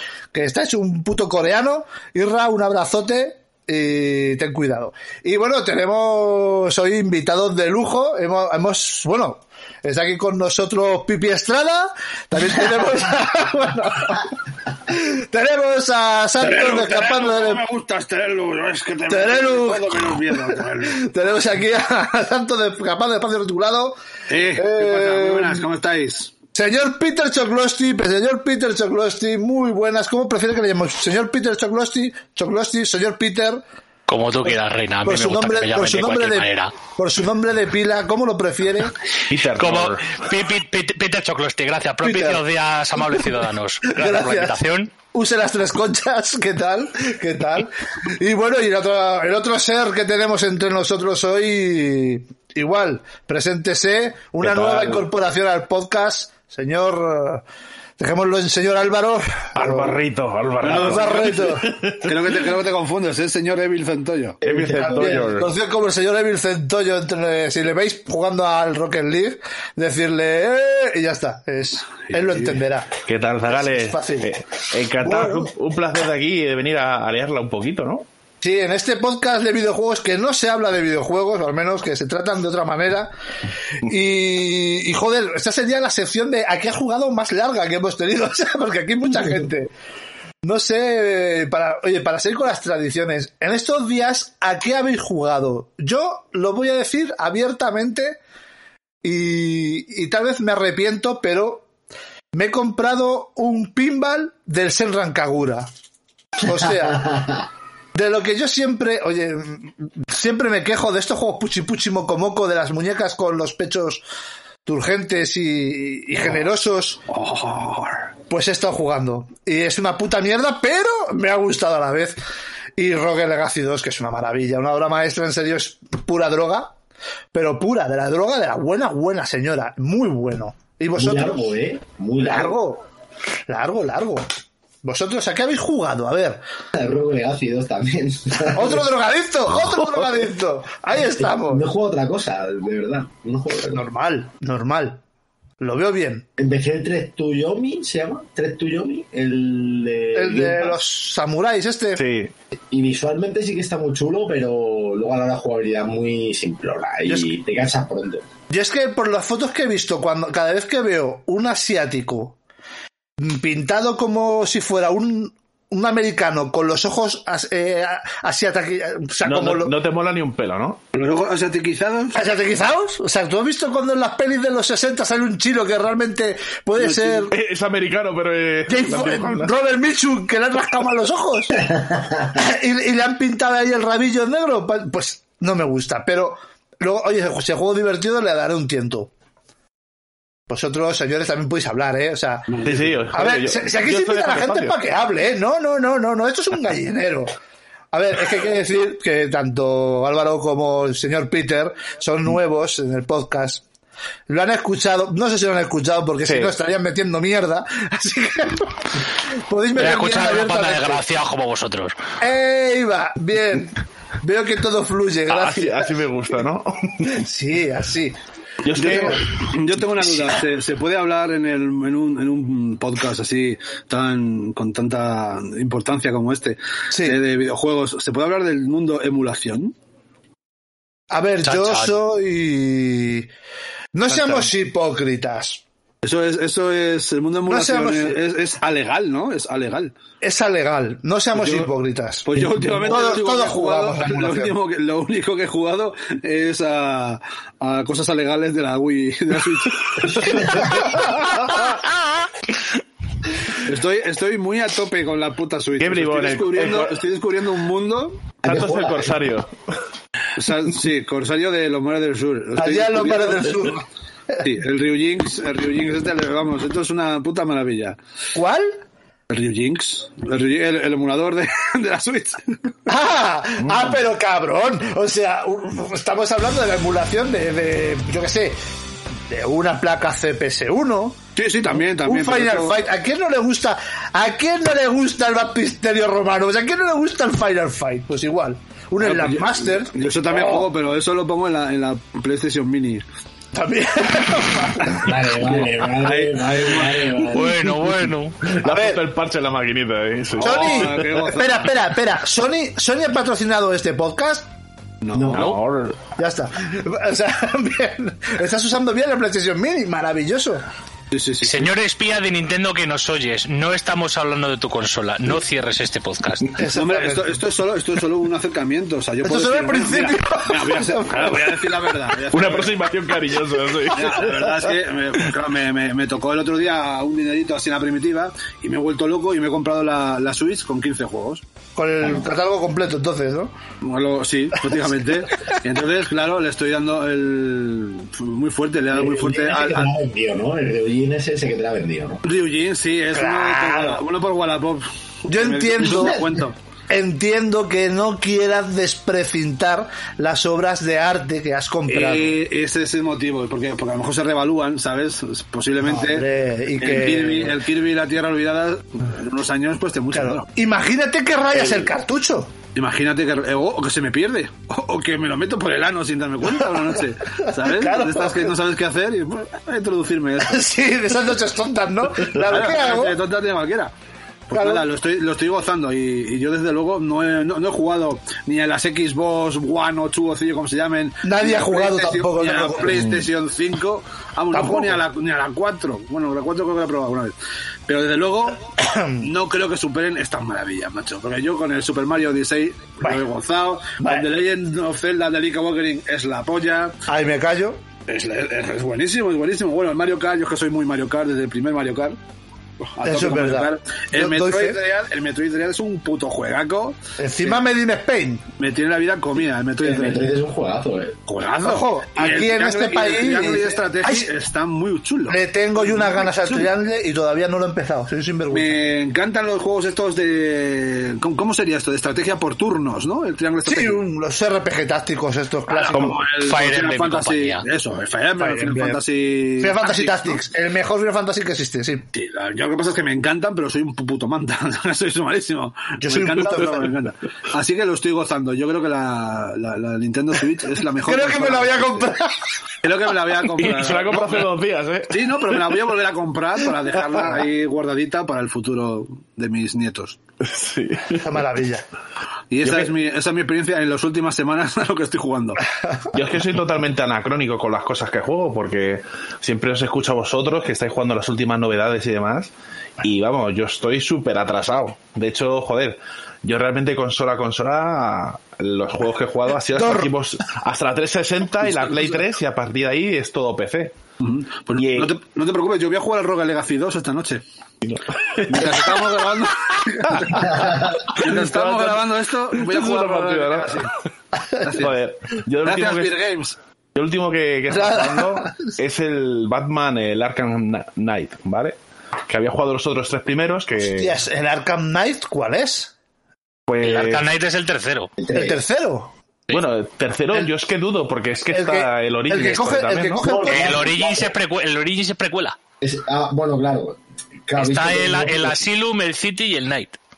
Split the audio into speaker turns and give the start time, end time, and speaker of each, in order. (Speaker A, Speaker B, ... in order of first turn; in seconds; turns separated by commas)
Speaker A: 0.3-14.3, Speaker A: 14.9-17.6, Speaker B: 16.4-21.1, Speaker A: 19.1-24.0, Speaker B: 24.3-26.3, Speaker A: 24.5-25.6, Speaker A: 26.5-33.6, Speaker C: 34.1-36.7, Speaker A: 35.0-39.0, Speaker D: 39.3-40.2, Speaker C: 39.5-44.9, Speaker A: 42.0-42.4, Speaker A: 43.8-57.4, Speaker D: 54.4-55.0, Speaker A: 58.0-60.0, Speaker D: 59.5-62.1, Speaker B: 60.6-61.4, Speaker A: 60.7-61.8, Speaker B: 61.9-64.4, Speaker E: 64.4-65.2, Speaker D: 64.4-65.5, Speaker A: 64.7-73.0, Speaker B: 72.1-72.6, Speaker D: 73.0-78.0, Speaker A: 73.5-74.3, Speaker A: 75.0-75.5, Speaker A: 78.4-83.1, Speaker A: 83.8-89.7, Speaker A: 90.4-98.2, Speaker A: 99.0-101.7, Speaker A: 102.3-105.7, Speaker A: 106.4-107.3, Speaker A: 107.9-114.0, Speaker A: 114.6-117.0, Speaker B: 117.1-118.1, Speaker A: 118.3-122.2, Speaker A: 122.8-126.7, Speaker A: 127.3-131.5, Speaker E: 131.0-132.5, Speaker A: 132.2-132.8, Speaker A: 133.5-134.2, Speaker A: 134.8-136.4, Speaker E: 136.7-138.8, Speaker A: 138.5-141.6, Speaker E: 141.4-143.8, Speaker A: 143.7-145.0, Speaker A: 145.6-146.3, Speaker E: 146.4-150.7, Speaker A: 150.1-152.0, Speaker D: 152.0-152.3, Speaker E: 152.7-158.2, Speaker A: 157.1-157.3, Speaker A: 158.5-162.4, Speaker A: 163.2-169.7, Speaker D: 169.2-170.8, Speaker B: 170.9-172.2, Speaker A: 172.1-177.3, Speaker B: 176.8-177.3, Speaker D: 177.3-179.5, Speaker A: 178.7-181.7, Speaker A: 182.3-189.1, Speaker A: 190.5-197.3, Speaker B: 192.5-193.0, Speaker D: 192.6-194.8, Speaker A: 197.9-203.6, Speaker A: 204.3-211.0, Speaker D: 206.2-206.5, Speaker C: 209.8-211.9, Speaker A: 212.2-216.0, Speaker D: 215.3-217.2, Speaker A: 217.1-218.2, Speaker D: 218.6-219.3, Speaker B: 218.7-229.7, Speaker A: 218.8-219.2, Speaker A: 226.9-227.2, Speaker A: 231.1-233.3, Speaker C: 231.4-232.0, Speaker A: 233.9-235.6, Speaker B: 236.0-239.9, Speaker A: 237.5-238.2, Speaker A: 240.2-244.6, Speaker B: 241.3-241.7, Speaker B: 242.2-250.9, Speaker E: 250.2-250.6, Speaker B: 253.6-258.3, Speaker D: 255.8-257.0, Speaker E: 258.4-259.1, Speaker D: 258.4-259.5, Speaker B: 260.4-263.7, Speaker A: 262.6-264.4, Speaker B: 264.4-268.0, Speaker A: 268.3-268.8, Speaker B: 269.3-272.7, Speaker A: 272.9-278.6, Speaker D: 273.6-273.9, Speaker A: 279.3-281.2, Speaker B: 281.4-282.8, Speaker A: 282.0-290.7, Speaker B: 289.0-293.0, Speaker A: 293.5-295.1, Speaker E: 294.9-297.6, Speaker B: 295.4-297.3, Speaker C: 297.3-298.4, Speaker D: 298.4-301.2, Speaker A: 298.6-299.0, Speaker B: 300.4-301.7, Speaker A: 300.4-304.5, Speaker B: 305.0-305.4, Speaker E: 305.1-305.5, Speaker D: 305.3-306.0, Speaker A: 306.1-310.6, Speaker B: 311.1-311.7, Speaker C: 311.4-316.6, Speaker A: 316.6-317.4, Speaker B: 316.7-322.8, Speaker A: 319.2-321.9, Speaker D: 322.3-324.3, Speaker B: 323.9-331.4, Speaker A: 324.1-324.6, Speaker A: 331.8-333.5, Speaker B: 333.8-339.9, Speaker E: 338.9-342.2, Speaker B: 342.2-346.6, Speaker A: 343.1-344.0, Speaker A: 345.3-346.2, Speaker A: 346.9-352.3, Speaker B: 351.9-356.2, Speaker A: 355.8-357.6, Speaker B: 356.8-360.4, Speaker A: 360.1-362.5, Speaker B: 362.7-370.6, Speaker A: 366.5-368.5, Speaker A: 370.4-373.2, Speaker B: 372.4-373.9, Speaker B: 374.5-387.3, Speaker A: 374.5-374.9, Speaker A: 381.2-383.2, Speaker A: 384.5-385.0, Speaker B: 387.9-397.0, Speaker A: 388.8-389.3, Speaker A: 394.0-394.2, Speaker A: 397.1-397.8, Speaker B: 398.1-402.2, Speaker B: 402.8-407.0, Speaker A: 403.0-404.8, Speaker A: 407.2-408.4, Speaker B: 408.6-410.3, Speaker E: 409.8-411.2, Speaker B: 411.3-415.4, Speaker A: 411.6-414.3, Speaker A: 415.3-418.8, Speaker B: 418.5-424.0, Speaker A: 423.6-426.2, Speaker B: 425.7-430.4, Speaker D: 425.9-426.2, Speaker C: 426.3-427.6, Speaker A: 428.4-429.0, Speaker A: 429.6-432.1, Speaker B: 432.1-442.1, Speaker A: 436.0-436.9, Speaker A: 441.0-442.4, Speaker B: 442.8-444.5, Speaker D: 443.5-445.8, Speaker B: 445.1-450.2, Speaker D: 450.4-451.3, Speaker A: 451.2-451.9, Speaker B: 452.5-455.6, Speaker D: 452.6-452.9, Speaker D: 456.1-473.9, Speaker A: 469.7-470.1, Speaker B: 474.2-477.4, Speaker D: 474.8-475.1, Speaker D: 477.8-479.1, Speaker B: 478.5-483.9, Speaker D: 481.1-483.9, Speaker D: 484.6-486.2, Speaker B: 484.6-484.9, Speaker B: 485.6-486.6, Speaker D: 486.9-491.8, Speaker A: 487.7-488.7, Speaker D: 492.3-494.1, Speaker A: 493.9-495.9, Speaker D: 496.7-497.2, Speaker C: 496.8-498.1, Speaker E: 498.2-498.6, Speaker A: 498.3-499.1, Speaker D: 499.5-503.2, Speaker A: 501.5-503.9, Speaker E: 503.2-504.3, Speaker C: 503.4-505.6, Speaker E: 505.8-508.6, Speaker C: 507.6-510.0